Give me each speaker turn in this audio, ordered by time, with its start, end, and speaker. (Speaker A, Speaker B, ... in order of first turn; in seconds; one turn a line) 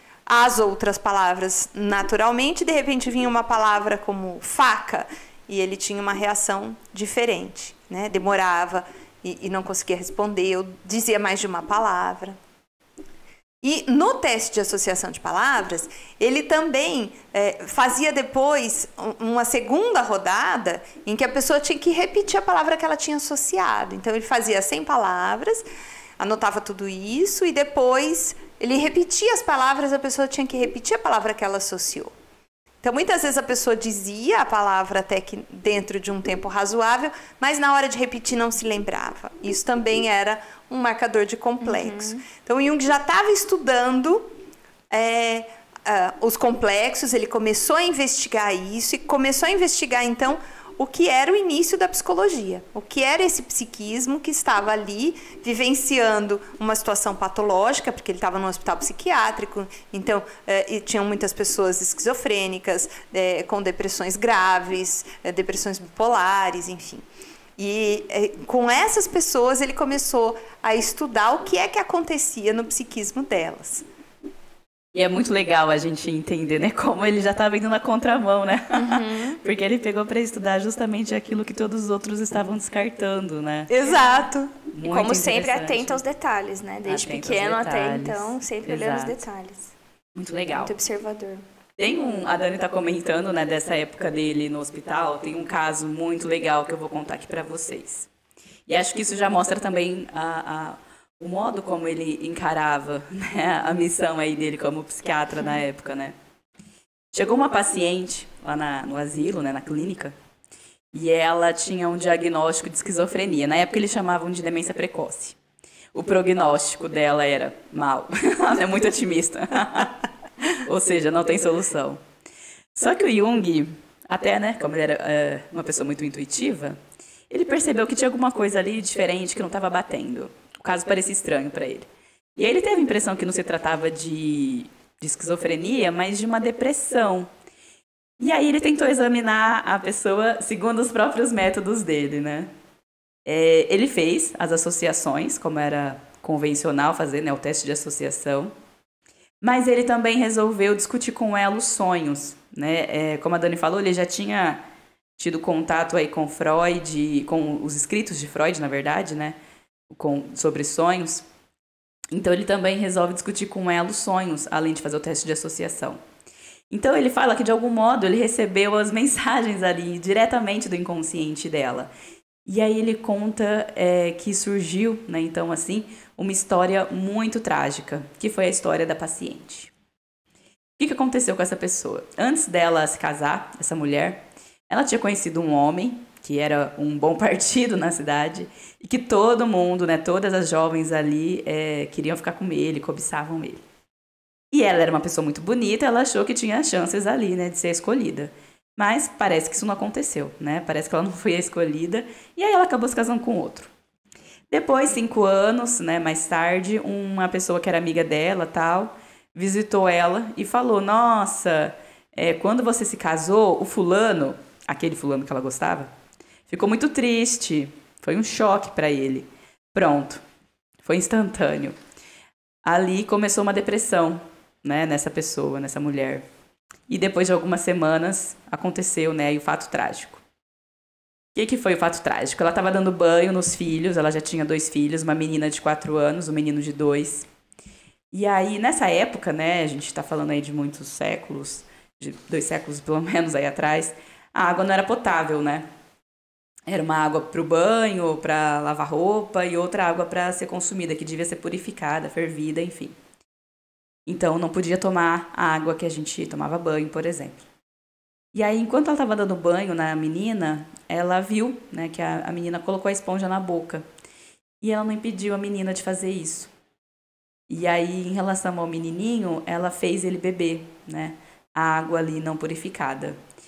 Speaker A: 0.2-12.4
Speaker A: 13.6-25.6
Speaker A: 26.2-32.1
Speaker A: 32.8-44.3
Speaker B: 41.6-42.2
Speaker A: 44.9-67.0
Speaker A: 67.6-73.8
Speaker C: 74.9-83.7
Speaker B: 78.7-79.4
Speaker A: 83.7-84.6
Speaker C: 84.7-86.0
Speaker B: 84.8-89.7
Speaker C: 86.8-89.2
Speaker C: 90.1-90.7
Speaker B: 90.5-91.4
Speaker C: 91.8-98.1
Speaker C: 98.7-106.1
Speaker C: 107.1-110.1
Speaker C: 110.9-115.4
Speaker C: 115.9-122.0
Speaker C: 122.7-126.8
Speaker C: 127.3-137.3
Speaker C: 138.2-142.5
Speaker C: 143.2-148.5
Speaker C: 149.4-154.6
Speaker C: 155.2-159.4
Speaker C: 159.9-161.2
Speaker C: 162.1-166.0
Speaker C: 166.7-171.9
Speaker C: 172.4-179.7
Speaker C: 180.8-193.6
Speaker C: 194.5-203.7
Speaker C: 204.5-215.9
Speaker C: 216.5-220.2
Speaker C: 220.8-221.8
Speaker C: 222.6-226.2
Speaker C: 226.9-230.2
Speaker C: 231.3-237.2
Speaker C: 238.1-245.7
Speaker C: 246.7-252.9
Speaker C: 254.1-257.3
Speaker C: 258.3-263.8
Speaker C: 264.6-266.5
Speaker C: 267.5-273.2